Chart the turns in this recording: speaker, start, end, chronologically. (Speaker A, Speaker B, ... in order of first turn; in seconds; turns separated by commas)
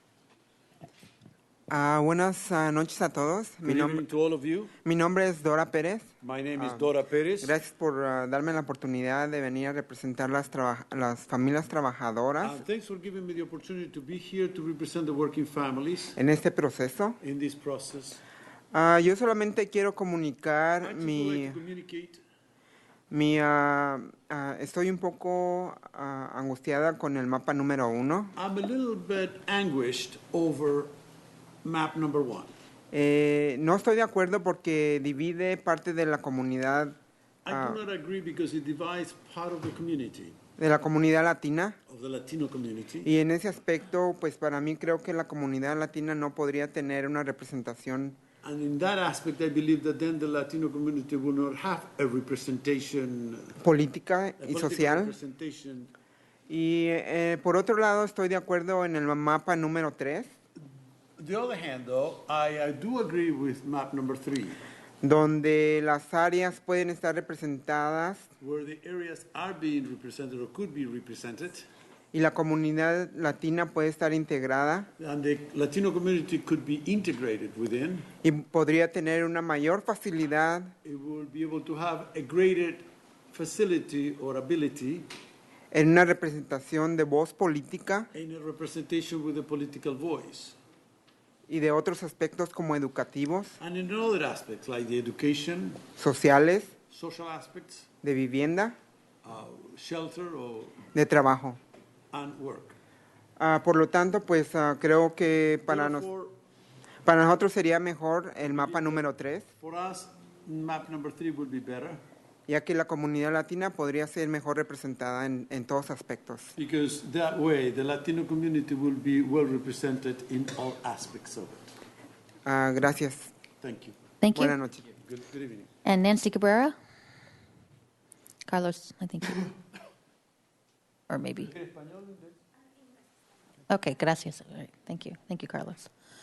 Speaker A: 1.7-4.0, Speaker B: 3.6-4.7, Speaker A: 4.8-6.9, Speaker B: 6.2-7.6, Speaker A: 7.4-12.6, Speaker B: 12.4-16.2, Speaker A: 16.1-17.2, Speaker B: 17.2-18.2, Speaker A: 18.7-21.6, Speaker B: 20.8-22.2, Speaker A: 23.1-28.3, Speaker B: 28.3-30.9, Speaker B: 31.6-32.5, Speaker A: 32.9-37.0, Speaker B: 37.5-40.4, Speaker A: 37.5-37.8, Speaker A: 40.6-41.8, Speaker B: 41.9-43.1, Speaker A: 43.0-48.2, Speaker B: 48.4-53.5, Speaker A: 53.6-55.1, Speaker B: 54.4-55.9, Speaker A: 56.5-60.3, Speaker B: 61.2-64.6, Speaker A: 65.0-68.3, Speaker B: 68.4-71.7, Speaker A: 72.1-74.9, Speaker B: 75.0-78.1, Speaker A: 78.2-80.7, Speaker B: 80.8-85.1, Speaker A: 85.7-88.1, Speaker B: 88.1-90.6, Speaker A: 91.5-93.5, Speaker B: 93.6-95.8, Speaker A: 96.0-96.7, Speaker B: 96.9-97.9, Speaker A: 98.0-98.8, Speaker B: 99.2-100.8, Speaker A: 100.9-101.6, Speaker B: 102.1-102.8, Speaker A: 103.4-106.1, Speaker B: 105.7-106.3, Speaker A: 107.0-109.5, Speaker B: 108.4-109.0, Speaker B: 109.6-112.0, Speaker A: 112.5-116.5, Speaker B: 116.5-121.7, Speaker A: 122.5-123.3, Speaker B: 123.6-124.0, Speaker C: 124.2-124.5, Speaker A: 124.3-124.9, Speaker B: 124.9-125.7, Speaker C: 125.8-126.8, Speaker C: 128.5-129.4, Speaker C: 131.1-131.5, Speaker B: 131.4-132.4, Speaker C: 133.7-135.9